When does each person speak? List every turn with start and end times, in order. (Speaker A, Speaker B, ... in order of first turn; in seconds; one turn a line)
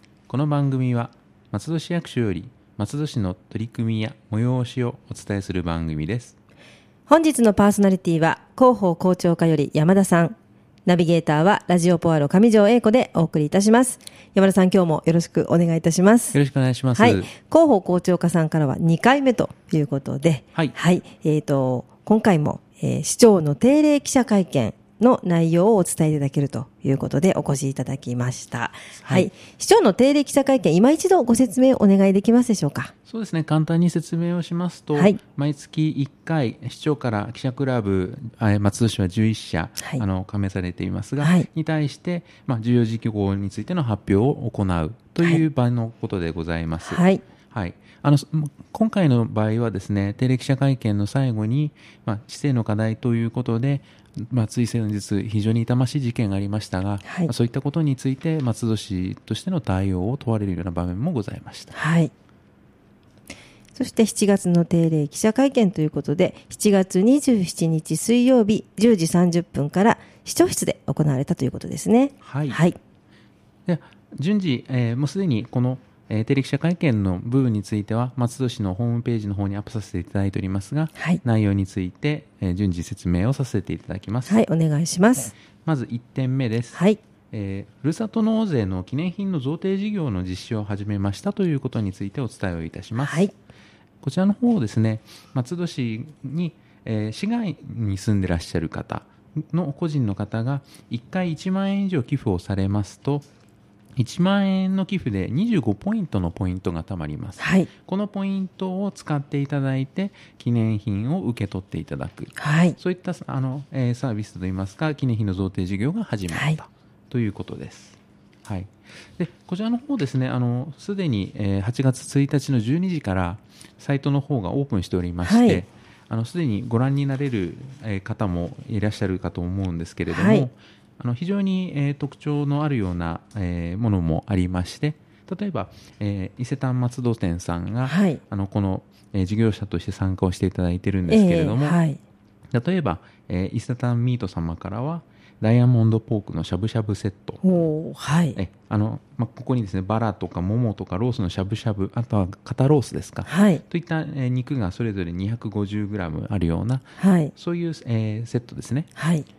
Speaker A: 0.3-6.3
Speaker B: 7.1-16.4
Speaker A: 16.3-17.3
Speaker B: 16.9-32.9
Speaker A: 28.9-29.3
Speaker A: 33.1-61.7
Speaker B: 41.2-41.5
Speaker B: 46.9-47.2
Speaker B: 57.0-57.3
Speaker B: 61.7-62.1
Speaker B: 63.7-72.8
Speaker A: 72.2-72.6
Speaker A: 73.7-84.4
Speaker B: 84.3-85.3
Speaker A: 85.6-93.3
Speaker B: 86.7-87.0
Speaker B: 93.0-93.3
Speaker A: 94.0-103.2
Speaker A: 104.0-141.8
Speaker B: 107.4-107.7
Speaker B: 112.4-112.8
Speaker B: 116.3-116.6
Speaker B: 125.2-125.6
Speaker B: 130.1-130.5
Speaker B: 137.8-138.2
Speaker B: 141.1-142.0
Speaker A: 142.5-147.4
Speaker B: 147.4-148.4
Speaker A: 148.3-158.9
Speaker B: 153.2-153.6
Speaker B: 157.0-157.3
Speaker B: 158.9-159.3